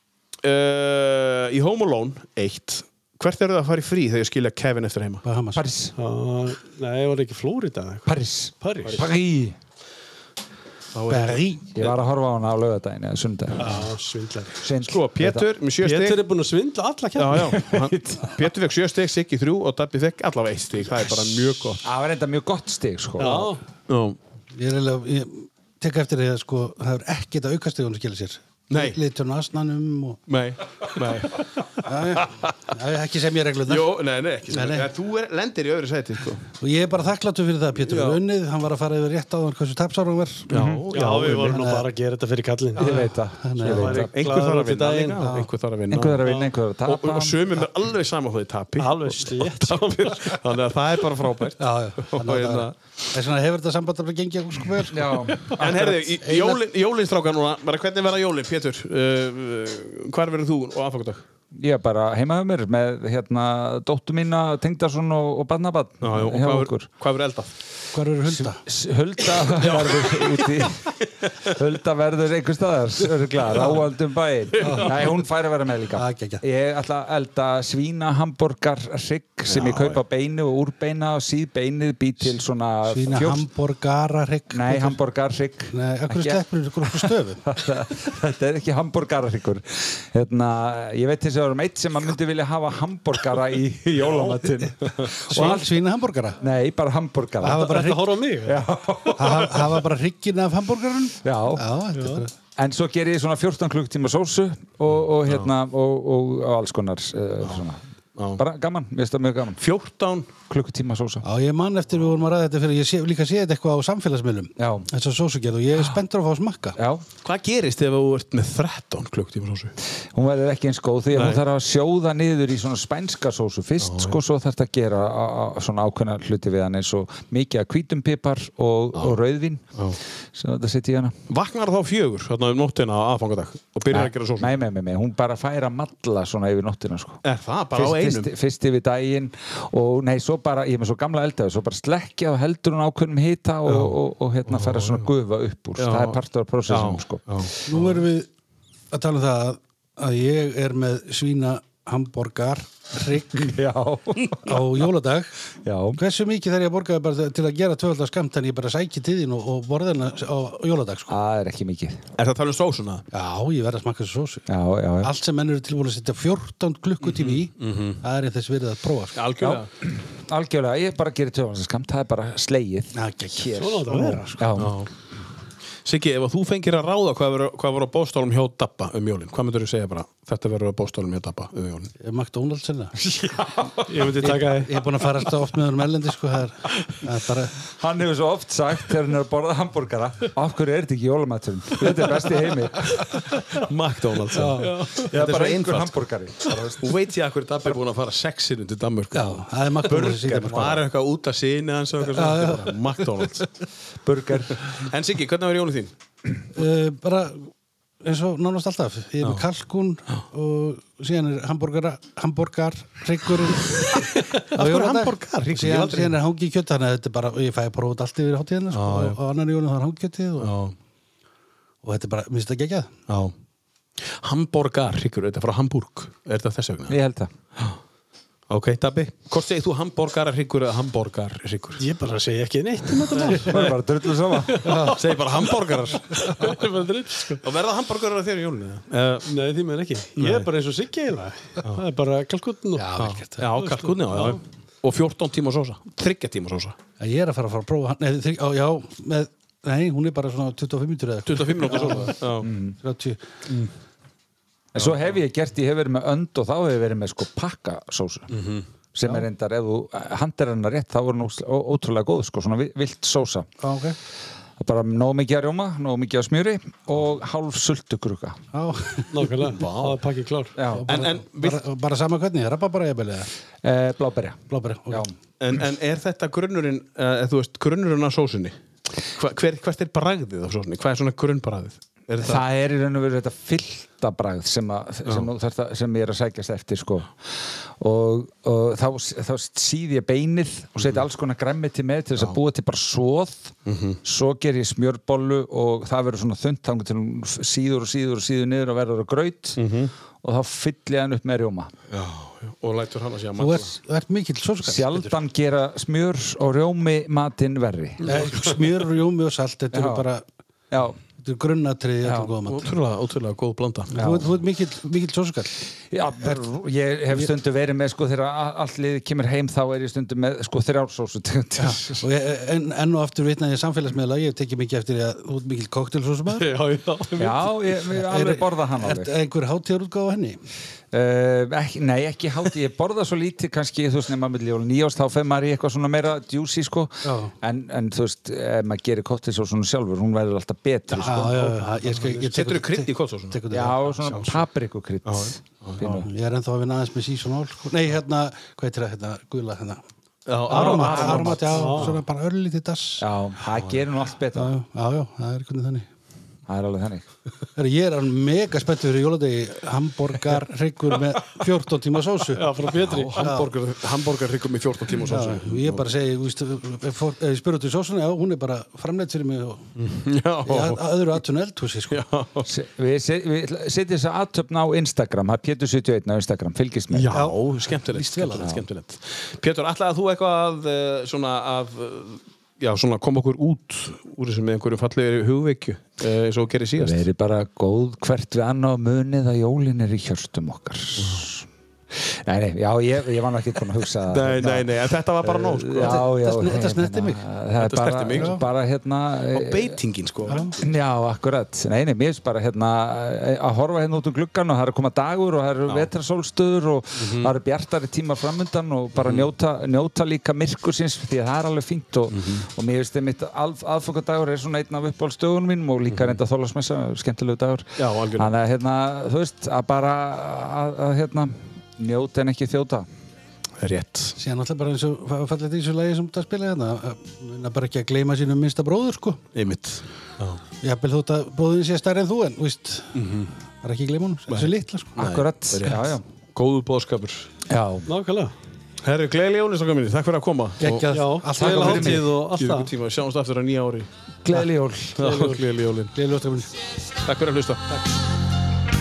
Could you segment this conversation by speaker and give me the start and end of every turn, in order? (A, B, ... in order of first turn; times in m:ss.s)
0:00.4-0:05.2 A
0:05.2-0:05.6 B
0:05.6-0:06.0 C
0:06.0-0:09.0 D
0:08.1-0:09.6 C
0:10.9-0:12.0 A
0:11.1-0:11.6 B
0:11.8-0:13.8 C
0:13.6-0:14.6 D
0:14.6-0:15.5 C
0:14.8-0:16.2 A
0:15.8-0:17.6 D
0:17.2-0:21.8 A
0:17.6-0:18.4 C
0:21.8-0:23.5 C
0:23.2-0:23.6 D
0:23.9-0:24.2 A
0:24.5-0:30.2 B
0:28.7-0:29.0 A
0:30.3-0:31.6 A
0:31.8-0:33.9 B
0:32.1-0:32.5 A
0:33.7-0:36.5 A
0:34.5-0:34.9 B
0:36.6-0:40.5 B
0:37.9-0:38.2 A
0:40.5-0:41.6 A
0:40.5-0:40.9 C
0:40.9-0:43.0 D
0:41.5-0:41.8 B
0:42.8-0:44.1 C
0:42.8-0:44.0 B
0:43.6-0:45.3 D
0:44.1-0:46.3 A
0:45.2-0:45.5 B
0:45.9-0:47.4 C
0:46.8-0:52.8 A
0:48.8-0:50.2 D
0:51.6-0:55.2 B
0:54.9-0:56.0 C
0:55.6-1:01.2 A
0:56.2-0:56.6 B
1:01.5-1:06.9 C
1:06.0-1:07.5 A
1:07.9-1:08.6 B
1:08.3-1:23.5 C
1:09.6-1:10.6 A
1:14.6-1:14.9 B
1:14.6-1:15.1 A
1:16.0-1:16.4 B
1:19.5-1:20.0 A
1:22.9-1:25.0 B
1:24.5-1:35.8 C
1:25.7-1:27.4 B
1:35.3-1:36.4 B
1:36.4-1:37.9 C
1:37.4-1:38.0 B
1:37.5-1:38.6 D
1:38.4-1:39.7 C
1:39.2-1:42.3 B
1:41.2-1:41.6 C
1:42.0-1:42.2 D
1:42.6-1:47.8 C
1:48.2-1:48.4 A
1:48.4-1:49.6 C
1:49.6-1:50.3 A
1:50.5-1:51.2 C
1:51.2-1:56.8 B
1:54.6-1:54.9 C
1:56.8-1:57.0 C
1:57.2-1:59.8 A
2:00.1-2:09.8 C
2:01.1-2:01.4 A
2:03.8-2:04.2 A
2:10.4-2:11.2 C
2:11.3-2:14.6 A
2:13.9-2:17.2 C
2:17.2-2:18.3 A
2:17.8-2:27.3 C
2:23.7-2:25.1 A
2:25.8-2:26.2 A
2:26.7-2:28.0 A
2:27.7-2:28.3 B
2:28.9-2:33.6 B
2:33.4-2:34.6 C
2:34.4-2:35.3 B
2:35.6-2:36.0 C
2:36.0-2:41.2 B
2:41.1-2:42.0 C
2:42.2-2:43.0 A
2:43.1-2:44.4 B
2:44.5-2:45.1 C
2:45.0-2:49.2 B
2:47.0-2:48.0 A
2:49.2-2:49.7 A
2:49.4-2:54.8 C
2:53.0-2:54.4 B
2:53.6-2:54.3 D
2:54.6-2:54.9 A
2:55.8-3:01.9 A
3:02.0-3:02.9 B
3:03.1-3:04.2 C
3:03.9-3:04.7 D
3:04.2-3:07.6 B
3:07.8-3:13.3 C
3:13.4-3:16.0 A
3:14.3-3:14.7 B
3:14.6-3:15.1 D
3:15.0-3:17.0 C
3:16.8-3:23.5 A
3:19.1-3:20.8 B
3:20.4-3:20.7 C
3:22.1-3:22.7 B
3:24.0-3:24.6 C
3:24.6-3:25.9 A
3:26.6-3:27.5 B
3:28.0-3:34.0 B
3:34.4-3:36.2 A
3:34.6-3:40.5 B
3:38.7-3:39.2 A
3:40.4-3:40.7 A
3:41.8-3:42.9 B
3:44.0-3:47.0 A
3:46.9-3:47.3 C
3:48.5-3:51.8 A
3:51.8-3:53.8 D
3:53.0-3:53.3 A
3:53.3-3:54.7 C
3:54.3-3:57.4 D
3:54.6-3:55.0 B
3:55.0-3:56.5 A
3:57.4-3:59.3 A
3:59.3-4:02.9 D
4:00.2-4:00.5 A
4:02.8-4:03.5 B
4:03.0-4:06.8 A
4:03.6-4:04.4 D
4:07.0-4:12.2 B
4:11.3-4:12.5 A
4:12.4-4:12.8 C
4:12.8-4:13.2 B
4:14.7-4:18.4 C
4:14.8-4:15.1 A
4:18.3-4:18.6 A
4:18.9-4:23.5 C
4:23.6-4:24.0 B
4:24.6-4:28.4 C
4:28.5-4:29.2 B
4:29.1-4:30.5 D
4:29.6-4:30.0 A
4:30.6-4:30.9 C
4:30.7-4:33.3 B
4:30.9-4:31.6 A
4:33.6-4:35.1 C
4:34.5-4:35.1 B
4:35.4-4:42.4 A
4:42.2-4:47.1 C
4:47.8-4:59.6 C
4:53.7-4:54.0 A
4:59.6-4:59.9 A
5:00.2-5:01.7 C
5:01.9-5:03.7 A
5:03.4-5:05.2 B
5:04.6-5:08.2 C
5:08.0-5:10.2 B
5:09.7-5:10.1 C
5:10.7-5:11.0 C
5:11.2-5:12.7 B
5:12.0-5:12.3 C
5:12.5-5:13.9 A
5:13.9-5:15.5 B
5:14.0-5:14.3 C
5:15.9-5:22.0 C
5:21.6-5:26.5 B
5:26.5-5:27.2 D
5:27.2-5:29.1 C
5:27.9-5:30.4 B
5:30.9-5:41.5 C
5:37.0-5:37.3 B
5:40.9-5:43.4 A
5:41.0-5:44.3 B
5:43.5-5:46.1 C
5:45.1-5:46.0 A
5:45.8-5:49.8 B
5:50.3-5:51.9 A
5:50.5-5:53.0 B
5:50.5-5:51.6 C
5:51.5-5:51.9 D
5:53.0-5:54.5 C
5:54.3-5:55.9 B
5:56.5-5:57.1 C
5:57.6-6:02.5 B
6:02.4-6:03.3 D
6:02.9-6:05.8 A
6:03.1-6:03.5 B
6:05.1-6:09.7 B
6:09.8-6:11.0 A
6:10.5-6:12.0 B
6:11.9-6:12.5 A
6:12.4-6:17.1 C
6:16.9-6:27.0 A
6:17.1-6:18.5 B
6:18.4-6:18.7 C
6:26.8-6:39.8 C
6:31.0-6:31.2 A
6:34.1-6:36.1 A
6:35.8-6:37.2 B
6:37.6-6:38.4 A
6:38.1-6:38.4 B
6:39.3-6:40.4 A
6:40.3-6:40.6 B
6:40.6-7:02.9 C
6:47.0-6:47.3 A
6:49.0-6:49.3 A
6:52.1-6:52.4 A
6:55.9-6:56.2 A
6:57.8-6:58.3 A
7:03.6-7:04.2 A
7:04.2-7:09.2 B
7:09.4-7:10.4 A
7:10.6-7:12.9 B
7:13.0-7:13.3 A
7:13.6-7:15.0 B
7:14.3-7:17.3 A
7:15.0-7:16.0 C
7:17.5-7:17.9 C
7:17.9-7:18.3 D
7:18.8-7:20.9 A
7:20.6-7:22.0 B
7:20.9-7:22.7 D
7:21.4-7:22.0 C
7:22.3-7:23.9 A
7:24.2-7:25.0 C
7:25.0-7:25.9 A
7:25.0-7:25.5 D
7:25.9-7:26.5 B
7:27.0-7:27.6 A